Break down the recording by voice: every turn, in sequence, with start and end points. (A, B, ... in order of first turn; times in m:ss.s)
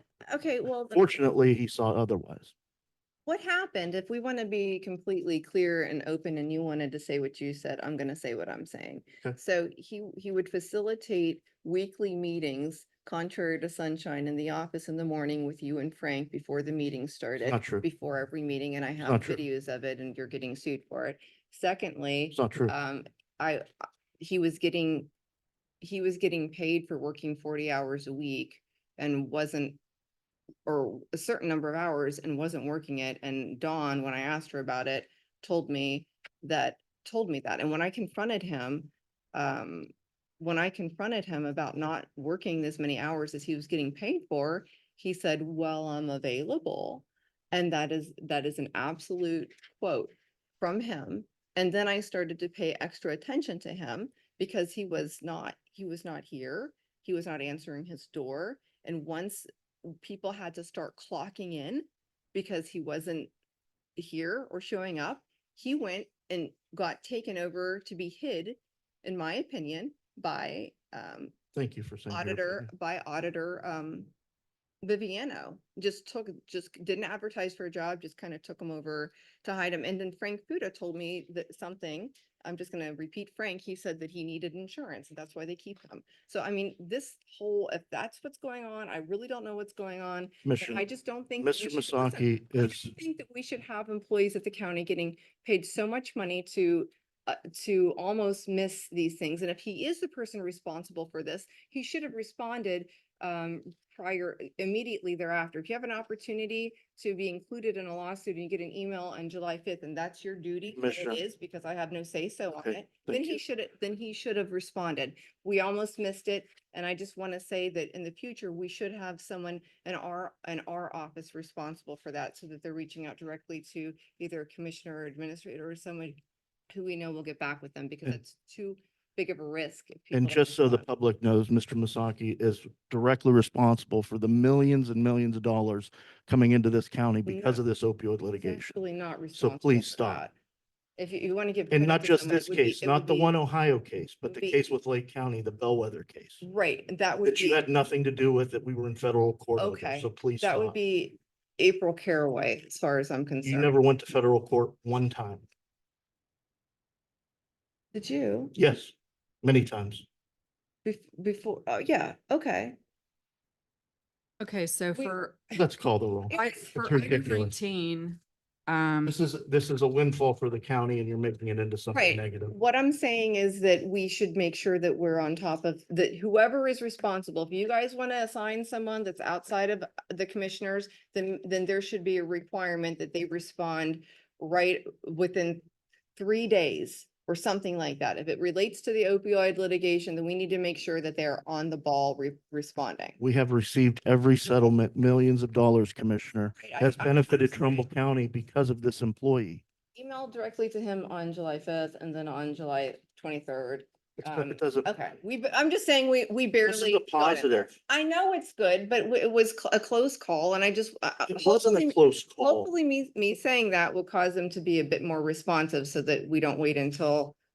0:00.2-0:01.2 A
0:00.9-0:02.5 B
0:03.2-0:23.7 A
0:17.4-0:17.8 B
0:19.0-0:19.4 B
0:22.3-0:22.7 B
0:24.2-0:25.1 A
0:25.8-0:29.8 A
0:30.6-1:03.3 A
1:04.0-1:11.4 A
1:11.5-1:12.7 B
1:12.1-1:14.1 A
1:14.8-2:06.2 A
1:30.4-1:30.8 B
1:31.4-1:32.9 B
1:50.8-1:51.2 B
1:52.6-1:53.4 B
2:06.7-2:10.8 A
2:10.1-2:18.7 B
2:17.2-2:17.6 A
2:18.3-2:20.3 A
2:19.3-2:20.2 B
2:21.0-2:23.4 A
2:21.7-2:26.4 B
2:24.3-2:24.6 A
2:26.4-2:27.6 A
2:27.2-2:30.7 B
2:29.6-2:33.7 A
2:33.4-2:35.4 B
2:37.9-2:38.6 A
2:38.5-2:40.0 B
2:40.8-2:42.8 A
2:44.4-2:45.3 C
2:44.9-2:45.6 A
2:45.5-2:47.5 B
2:46.3-2:47.2 A
2:46.3-2:49.2 C
2:49.0-2:52.5 B
2:51.9-3:05.6 A
3:06.2-3:13.2 A
3:13.2-3:19.6 B
3:16.6-3:17.8 A
3:20.0-3:37.4 A
3:24.2-3:24.9 B
3:26.6-3:27.7 B
3:31.3-3:32.7 B